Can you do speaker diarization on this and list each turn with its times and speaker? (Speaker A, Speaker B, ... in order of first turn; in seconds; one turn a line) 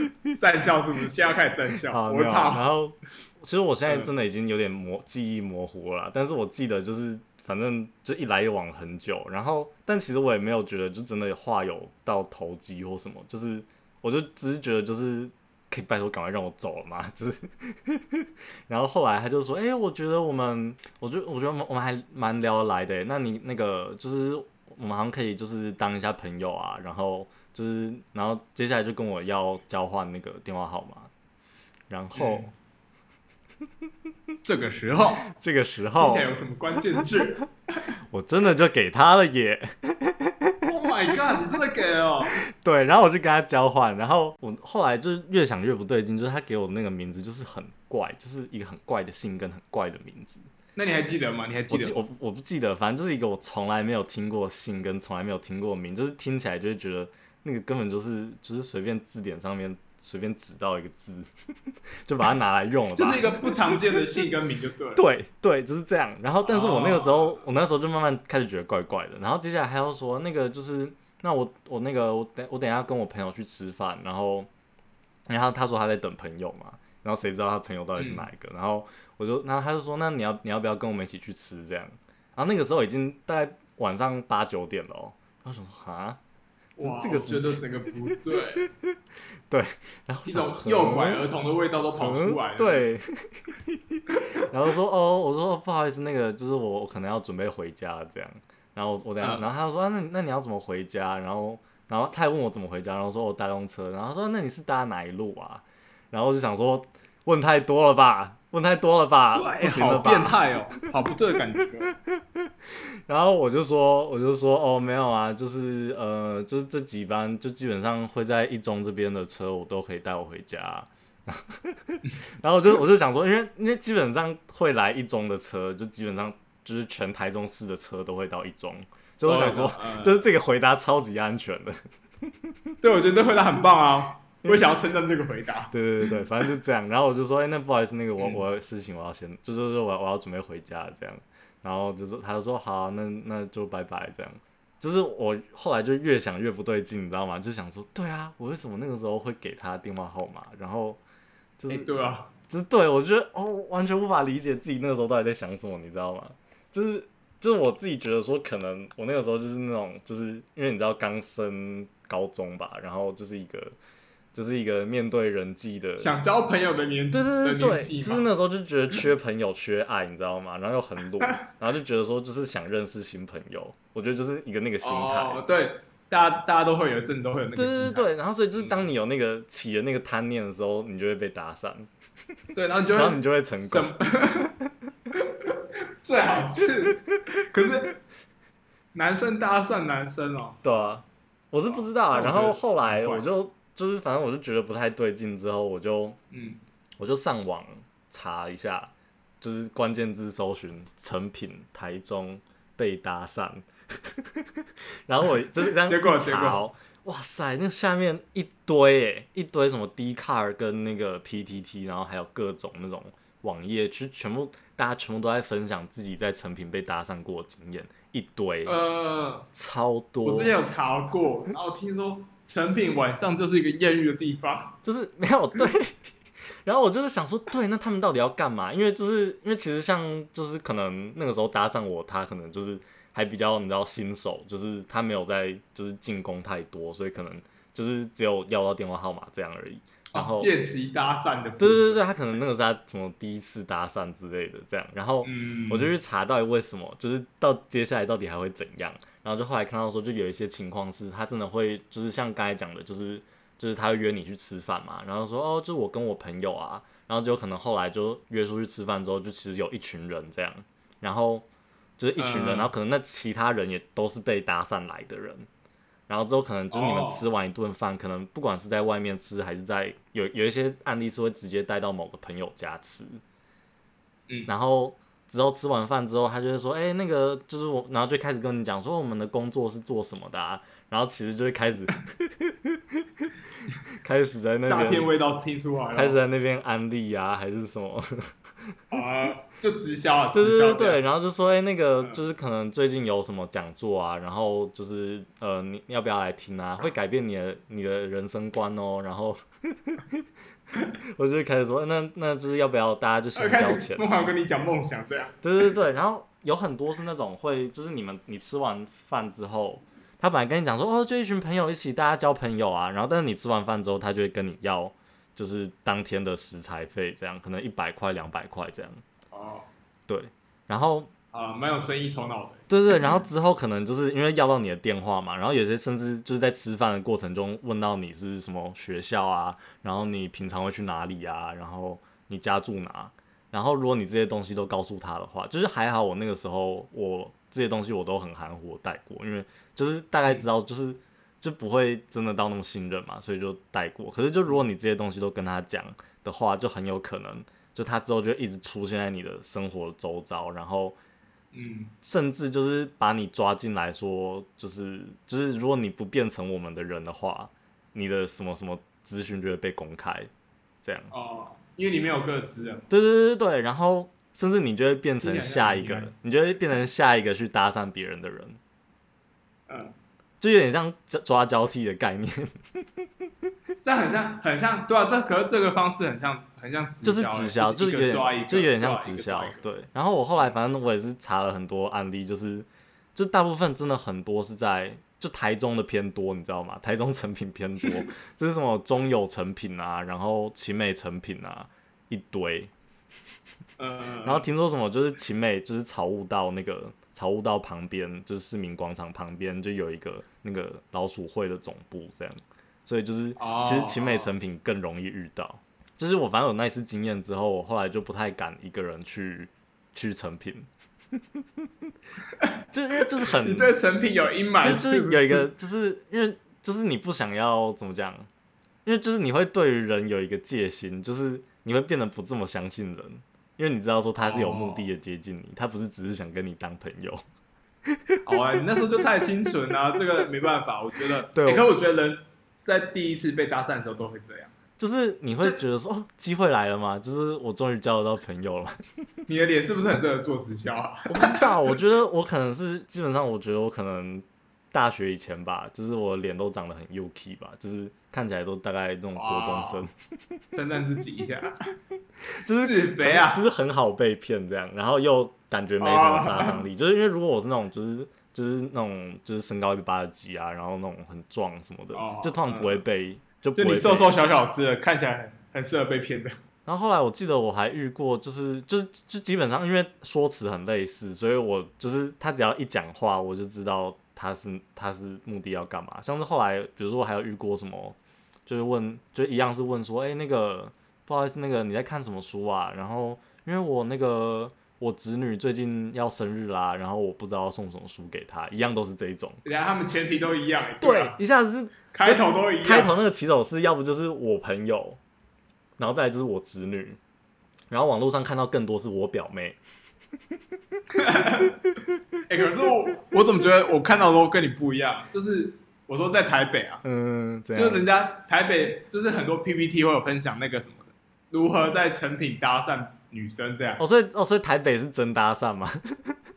Speaker A: 0.4-2.6
Speaker B: 1.9-31.1
Speaker B: 31.9-32.5
Speaker A: 32.1-32.5
Speaker A: 34.4-35.3
Speaker B: 35.3-36.3
Speaker A: 36.0-37.8
Speaker B: 37.0-37.3
Speaker B: 38.1-41.3
Speaker A: 40.6-42.4
Speaker B: 42.3-50.5
Speaker A: 50.8-52.0
Speaker B: 51.7-61.3
Speaker B: 62.0-64.0
Speaker A: 63.0-65.0
Speaker B: 65.0-74.5
Speaker A: 66.4-67.4
Speaker B: 75.3-86.2
Speaker A: 78.0-78.3
Speaker A: 86.8-88.7
Speaker B: 86.8-87.6
Speaker B: 88.3-88.9
Speaker B: 89.5-91.3
Speaker A: 90.3-92.9
Speaker B: 92.0-110.4
Speaker A: 94.1-94.4
Speaker A: 99.2-99.5
Speaker A: 109.3-112.0
Speaker B: 112.1-132.7
Speaker A: 129.2-130.2
Speaker A: 132.8-136.2
Speaker B: 134.4-134.8
Speaker B: 135.7-151.0
Speaker A: 138.2-138.4
Speaker B: 151.6-151.9
Speaker A: 151.7-152.3
Speaker B: 152.5-163.8
Speaker B: 164.3-166.2
Speaker A: 166.0-168.3
Speaker B: 167.1-175.4
Speaker A: 174.8-178.8
Speaker B: 177.6-181.9
Speaker A: 182.6-184.5
Speaker B: 182.9-184.4
Speaker A: 185.2-188.0
Speaker A: 188.9-190.6
Speaker B: 190.6-196.2
Speaker A: 191.7-193.2
Speaker A: 196.3-196.6
Speaker B: 197.0-218.8
Speaker A: 205.8-206.6
Speaker A: 218.7-219.5
Speaker B: 219.5-220.5
Speaker A: 220.2-224.8
Speaker B: 224.8-226.0
Speaker B: 226.7-240.5
Speaker A: 240.1-242.0
Speaker B: 241.6-261.5
Speaker A: 245.2-245.9
Speaker B: 262.0-265.5
Speaker A: 262.2-262.7
Speaker B: 266.1-273.2
Speaker A: 266.7-267.3
Speaker B: 274.5-283.3
Speaker B: 283.9-285.1
Speaker A: 284.6-286.2
Speaker B: 285.9-288.3
Speaker A: 288.9-291.0
Speaker B: 290.3-300.2
Speaker B: 301.1-304.1
Speaker A: 303.4-305.4
Speaker B: 305.4-319.0
Speaker A: 319.3-319.7
Speaker B: 320.1-321.1
Speaker A: 321.3-322.7
Speaker B: 322.7-351.0
Speaker A: 351.5-351.9
Speaker B: 352.0-360.3
Speaker B: 360.8-361.1
Speaker A: 361.1-362.9
Speaker B: 362.9-368.6
Speaker A: 365.2-366.1
Speaker A: 369.7-369.9
Speaker B: 370.4-373.0
Speaker A: 373.8-379.7
Speaker B: 377.0-392.7
Speaker A: 393.8-394.5
Speaker B: 394.2-411.7
Speaker A: 403.4-404.3
Speaker A: 412.4-415.5
Speaker B: 412.7-413.7
Speaker B: 414.6-418.3
Speaker B: 418.9-427.2
Speaker A: 424.2-424.9
Speaker B: 427.9-428.2
Speaker A: 428.2-434.5
Speaker B: 431.3-431.7
Speaker B: 434.8-438.8
Speaker A: 439.3-441.5
Speaker B: 441.1-450.4
Speaker A: 449.1-449.8
Speaker A: 450.5-451.7
Speaker B: 452.4-464.1
Speaker A: 452.6-453.4
Speaker A: 455.8-456.6
Speaker A: 461.9-462.8
Speaker A: 463.6-466.4
Speaker B: 466.7-489.4
Speaker A: 489.4-491.2
Speaker B: 490.8-495.0
Speaker A: 491.9-492.9
Speaker B: 495.8-497.0
Speaker B: 497.7-499.6
Speaker A: 500.9-501.6
Speaker A: 502.3-506.8
Speaker B: 506.8-507.9
Speaker A: 507.5-513.8
Speaker B: 513.8-516.2